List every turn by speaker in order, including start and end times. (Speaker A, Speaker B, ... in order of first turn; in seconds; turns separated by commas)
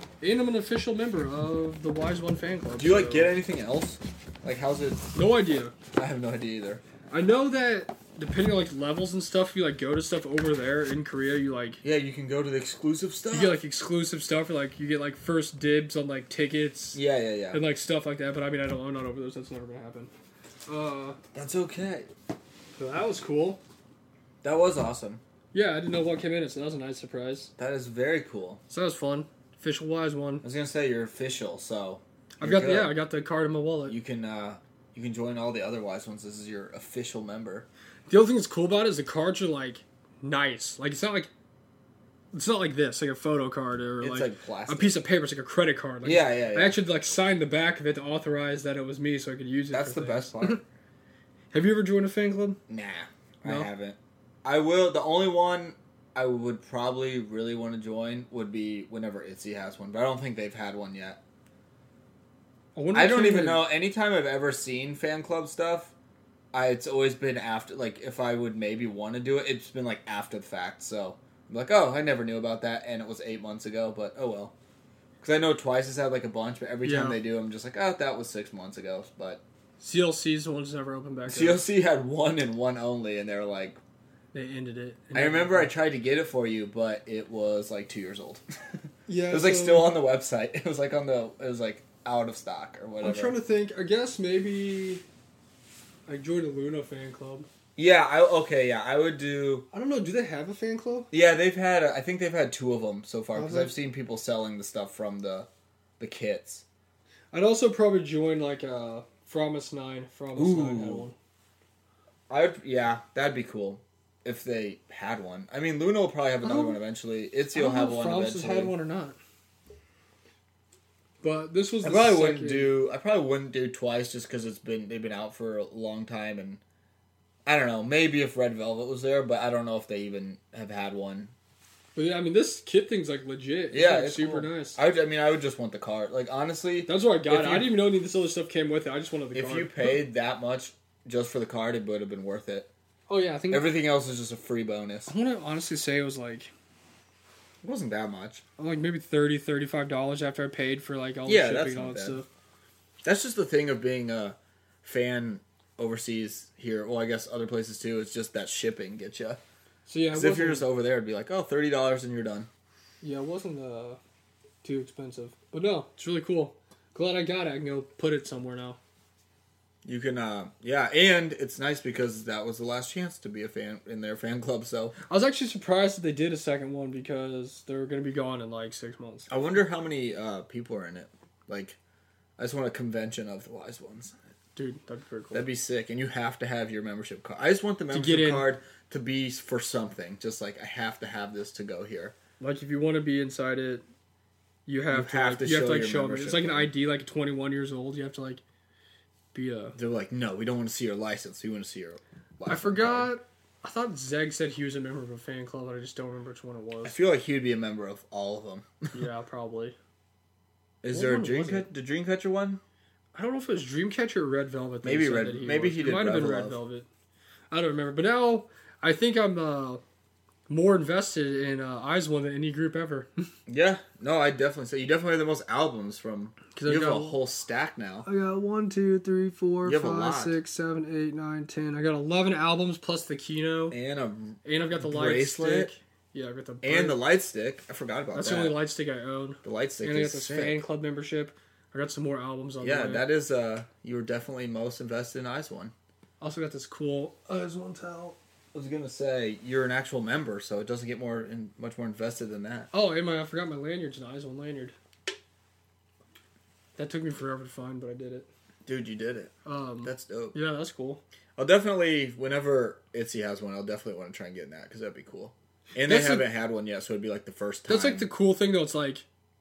Speaker A: 0.2-3.3, Speaker B: 2.8-5.1, Speaker A: 5.1-5.7, Speaker B: 5.9-6.8, Speaker A: 7.1-11.8, Speaker B: 11.8-13.6, Speaker A: 13.3-17.0, Speaker B: 16.9-17.6, Speaker A: 17.5-20.1, Speaker A: 20.7-21.2, Speaker B: 21.3-22.1, Speaker A: 22.8-23.6, Speaker B: 24.4-25.2, Speaker A: 25.5-27.5, Speaker B: 27.6-28.6, Speaker A: 28.7-30.4, Speaker B: 30.4-33.0, Speaker A: 32.4-34.0, Speaker B: 33.9-37.7, Speaker A: 38.1-41.3, Speaker A: 42.3-50.6, Speaker B: 44.0-45.0, Speaker B: 46.0-46.8, Speaker B: 49.7-50.6, Speaker A: 51.5-52.6, Speaker B: 52.7-61.2, Speaker A: 62.7-63.6, Speaker B: 62.9-65.9, Speaker B: 66.5-74.5, Speaker B: 75.2-79.4, Speaker A: 76.8-77.2, Speaker A: 79.8-81.6, Speaker B: 81.3-83.8, Speaker A: 84.3-85.7, Speaker B: 85.1-93.3, Speaker A: 89.1-90.0, Speaker A: 93.0-95.0, Speaker A: 96.1-97.5, Speaker B: 97.8-99.7, Speaker A: 99.7-101.1, Speaker B: 101.1-105.5, Speaker A: 103.3-103.7, Speaker B: 106.0-106.6, Speaker A: 107.3-111.1, Speaker B: 110.3-111.1, Speaker B: 112.3-118.7, Speaker A: 116.4-116.8, Speaker A: 117.5-119.2, Speaker A: 121.2-122.7, Speaker B: 121.8-126.6, Speaker B: 127.5-131.3, Speaker A: 131.9-134.8, Speaker B: 133.7-137.9, Speaker A: 136.8-140.0, Speaker B: 139.3-142.7, Speaker A: 143.1-143.7, Speaker B: 143.5-145.1, Speaker A: 145.1-146.5, Speaker B: 147.6-148.4, Speaker A: 148.6-152.3, Speaker B: 151.2-152.2, Speaker B: 153.0-159.4, Speaker A: 159.8-160.7, Speaker B: 160.1-162.5, Speaker A: 163.0-164.0, Speaker A: 164.6-168.8, Speaker B: 169.8-174.9, Speaker A: 175.1-179.3, Speaker B: 179.3-181.8, Speaker B: 182.4-184.2, Speaker A: 184.6-185.5, Speaker B: 185.3-192.1, Speaker A: 187.9-188.5, Speaker A: 192.4-193.8, Speaker A: 194.7-198.4, Speaker B: 194.9-196.7, Speaker A: 199.3-199.8, Speaker B: 199.7-203.1, Speaker A: 202.4-206.9, Speaker B: 206.8-208.9, Speaker A: 208.9-209.7, Speaker B: 210.8-212.6, Speaker A: 210.9-211.7, Speaker A: 213.1-216.8, Speaker B: 214.8-216.6, Speaker A: 217.5-219.8, Speaker A: 220.5-223.3, Speaker B: 223.5-228.1, Speaker A: 226.5-227.2, Speaker A: 228.0-233.8, Speaker B: 229.6-230.4, Speaker B: 233.7-235.7, Speaker A: 234.4-237.0, Speaker B: 236.6-238.6, Speaker A: 238.1-243.1, Speaker B: 239.4-240.6, Speaker B: 242.6-245.7, Speaker A: 246.2-248.2, Speaker B: 248.5-252.7, Speaker A: 252.7-254.7, Speaker A: 256.8-258.3, Speaker B: 258.6-259.3, Speaker A: 259.4-261.0, Speaker B: 259.8-260.4, Speaker B: 261.4-268.1, Speaker A: 265.8-266.3, Speaker A: 267.7-269.1